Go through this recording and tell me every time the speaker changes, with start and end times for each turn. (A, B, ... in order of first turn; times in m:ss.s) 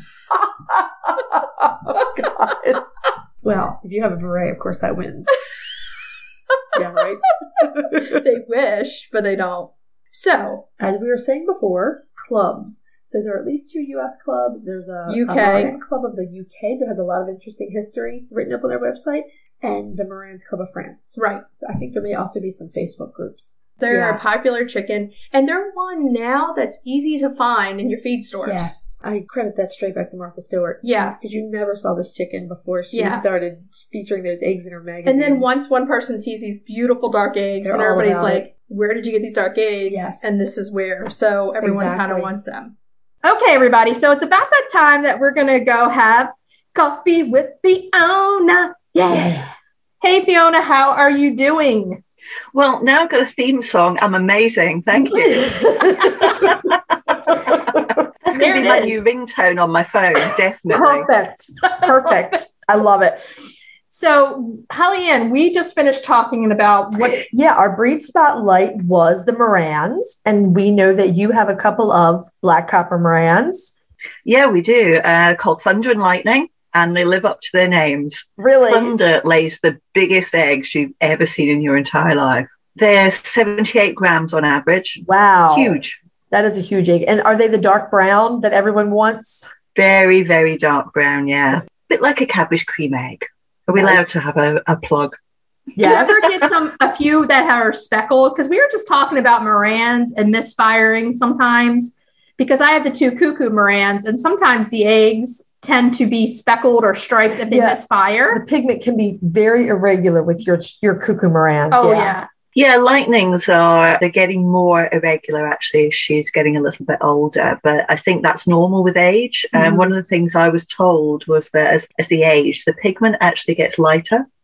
0:01.1-0:02.8 A
0:03.4-0:05.4 A
0:06.7-0:08.2 A
0:07.9-0:10.6 B
0:10.8-0:24.2 A
0:15.1-0:15.8 B
0:21.2-0:21.4 B
0:23.8-0:28.8 B
0:28.4-0:35.5 A
0:30.8-0:31.2 B
0:32.9-0:33.2 B
0:35.0-0:42.7 B
0:37.6-0:38.5 A
0:39.9-0:40.3 A
0:41.6-0:42.3 A
0:43.2-0:49.4 B
0:49.1-0:49.5 C
0:50.0-0:52.0 B
0:52.5-0:56.6 D
0:55.1-0:56.6 C
0:57.3-0:57.8 C
0:58.2-1:01.1 D
0:58.3-0:59.0 B
0:58.6-0:58.9 C
1:00.7-1:03.2 C
1:01.8-1:02.0 B
1:03.9-1:07.2 B
1:07.1-1:13.8 C
1:14.2-1:26.0 D
1:18.4-1:19.0 C
1:25.0-1:25.8 C
1:26.3-1:29.5 C
1:29.8-1:35.2 D
1:33.7-1:34.1 C
1:35.8-1:36.2 C
1:35.8-1:48.4 B
1:35.9-1:36.3 D
1:47.5-1:52.2 C
1:51.7-1:52.3 B
1:52.6-2:04.3 D
1:59.5-1:59.9 C